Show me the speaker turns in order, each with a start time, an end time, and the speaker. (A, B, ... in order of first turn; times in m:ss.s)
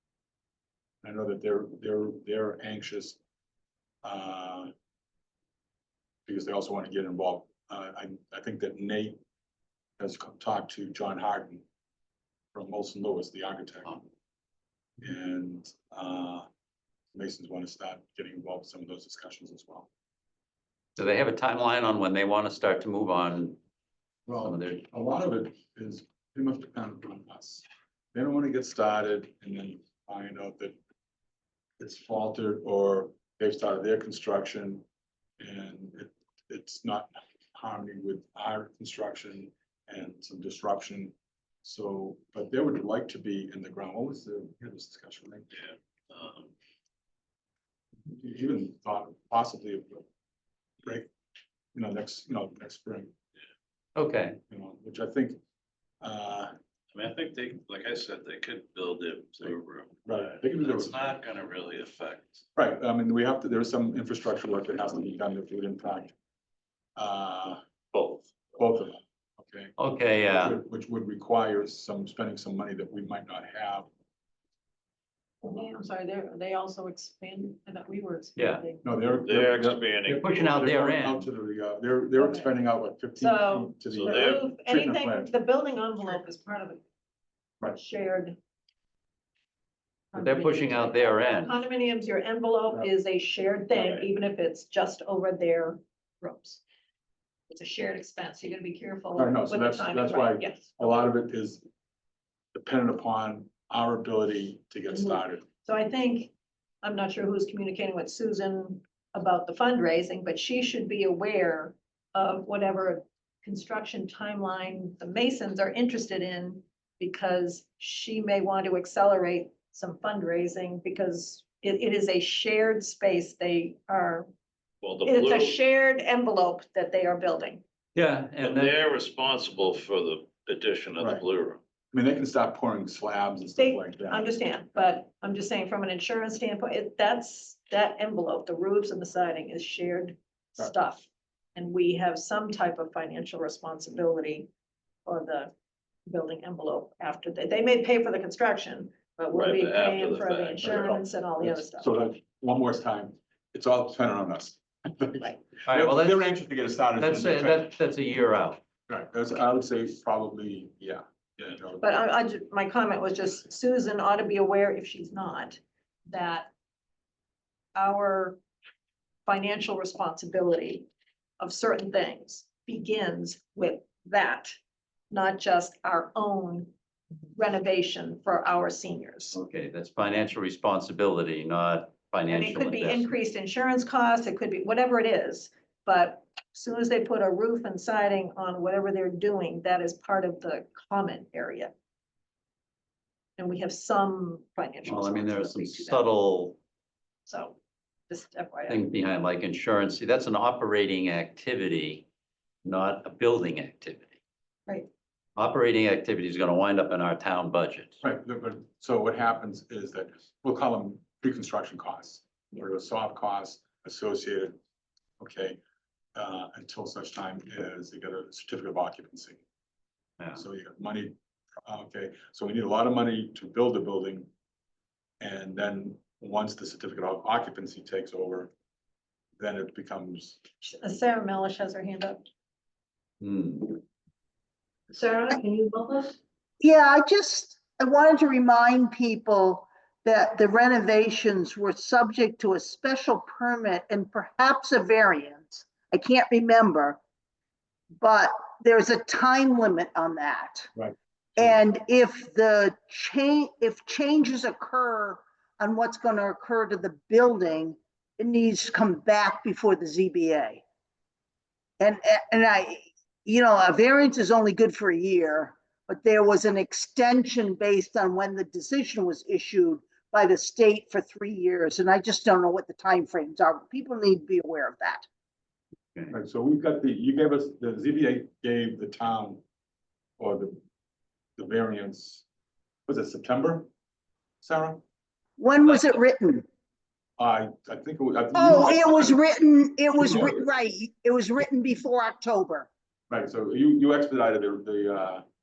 0:01.0-0:03.2 A
0:04.0-0:04.7 A
0:06.3-0:09.2 A
0:10.0-0:11.6 A
0:12.5-0:14.1 A
0:15.0-0:16.5 A
0:17.1-0:19.9 A
0:21.0-0:23.6 B
0:24.3-0:30.8 A
0:24.4-0:24.8 B
0:31.8-0:34.8 A
0:35.4-0:45.5 A
0:46.1-0:46.5 C
0:48.1-0:50.1 A
0:50.8-0:51.1 A
0:51.7-0:53.1 A
0:54.0-0:54.4 B
0:54.5-0:55.4 A
0:56.0-0:56.5 A
0:56.9-1:02.4 C
1:00.1-1:01.1 A
1:02.6-1:06.1 A
1:07.0-1:09.7 A
1:09.8-1:10.6 B
1:10.3-1:13.9 A
1:15.4-1:18.8 D
1:18.4-1:18.6 B
1:18.8-1:25.3 A
1:19.3-1:20.6 C
1:20.1-1:21.3 B
1:23.2-1:26.8 D
1:23.9-1:24.5 C
1:27.7-1:28.4 D
1:30.1-1:36.6 D
1:30.1-1:31.6 B
1:37.5-1:40.8 D
1:39.2-1:41.7 A
1:42.5-1:45.5 A
1:44.9-2:04.3 D
2:04.8-2:05.6 C
2:05.1-2:07.6 D
2:08.0-2:08.8 B
2:08.4-2:11.6 C
2:11.0-2:11.2 A
2:11.9-2:14.3 A
2:13.6-2:24.5 D
2:25.0-2:25.5 D
2:26.1-2:31.9 D
2:29.3-2:30.6 C
2:30.6-2:37.7 A
2:35.2-2:35.5 D
2:35.6-2:36.3 B
2:37.0-2:38.6 B
2:38.9-2:42.0 A
2:41.8-2:46.5 D
2:47.8-2:48.4 D
2:49.3-2:50.9 D
2:51.4-2:54.6 D
2:55.1-2:56.7 D
2:57.3-2:59.4 D
2:59.3-3:03.2 B
3:02.4-3:11.7 D
3:13.4-3:16.0 D
3:14.8-3:16.6 B
3:17.3-3:17.6 D
3:18.1-3:18.8 D
3:18.7-3:22.1 B
3:22.6-3:24.2 B
3:25.4-3:28.0 B
3:28.0-3:34.6 A
3:35.2-3:35.6 A
3:36.2-3:39.4 A
3:40.3-3:44.3 A
3:45.2-3:48.5 A
3:49.4-3:50.5 A
3:50.6-3:52.3 D
3:53.2-3:53.8 B
3:54.9-3:56.2 D
3:56.6-4:07.0 E
4:08.0-4:10.7 E
4:10.8-4:11.5 A
4:11.4-4:20.6 E
4:21.8-4:35.1 E
4:36.1-4:39.4 A
4:40.2-4:40.6 A
4:41.4-4:42.2 A
4:42.9-4:43.7 A
4:44.4-4:44.8 A
4:45.4-4:46.4 E
4:47.2-4:49.2 A
4:48.3-4:52.7 E
4:50.0-4:50.3 A
4:53.1-4:55.2 A